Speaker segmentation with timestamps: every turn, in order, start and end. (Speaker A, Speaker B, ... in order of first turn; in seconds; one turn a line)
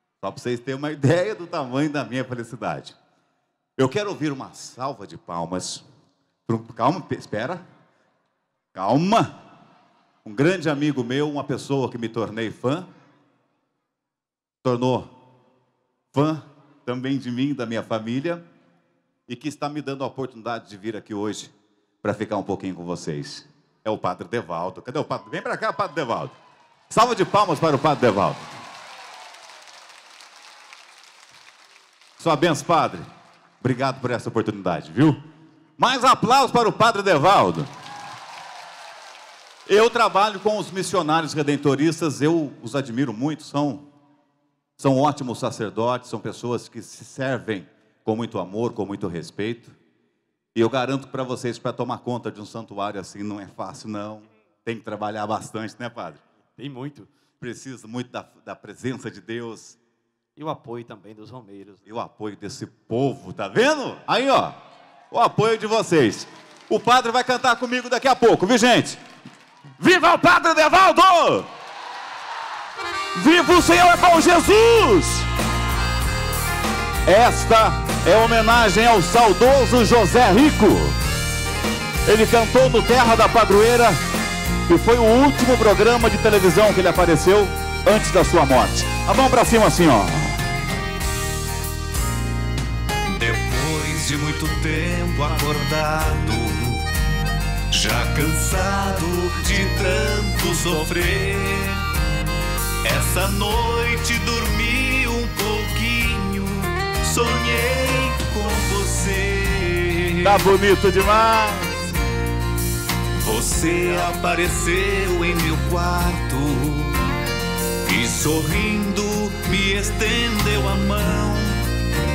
Speaker A: 0.2-3.0
Speaker A: 3.8-5.8
Speaker A: 6.5-7.6
Speaker A: 8.7-9.3
Speaker A: 10.2-12.9
Speaker A: 14.6-15.1
Speaker A: 16.1-18.4
Speaker A: 19.3-26.3
Speaker A: 26.9-28.5
Speaker A: 32.2-33.0
Speaker A: 33.6-35.2
Speaker A: 35.8-37.7
Speaker A: 39.7-43.9
Speaker A: 44.8-49.8
Speaker A: 50.5-56.2
Speaker B: 56.6-57.1
Speaker A: 57.4-59.8
Speaker B: 60.4-61.8
Speaker A: 61.9-64.6
Speaker A: 65.1-69.0
Speaker A: 69.8-71.5
Speaker A: 73.1-75.3
Speaker A: 77.0-81.0
Speaker A: 82.0-84.0
Speaker A: 84.7-90.4
Speaker C: 93.1-96.8
Speaker C: 97.7-101.8
Speaker C: 102.8-110.4
Speaker A: 110.2-111.8
Speaker C: 113.2-117.0
Speaker C: 117.8-121.6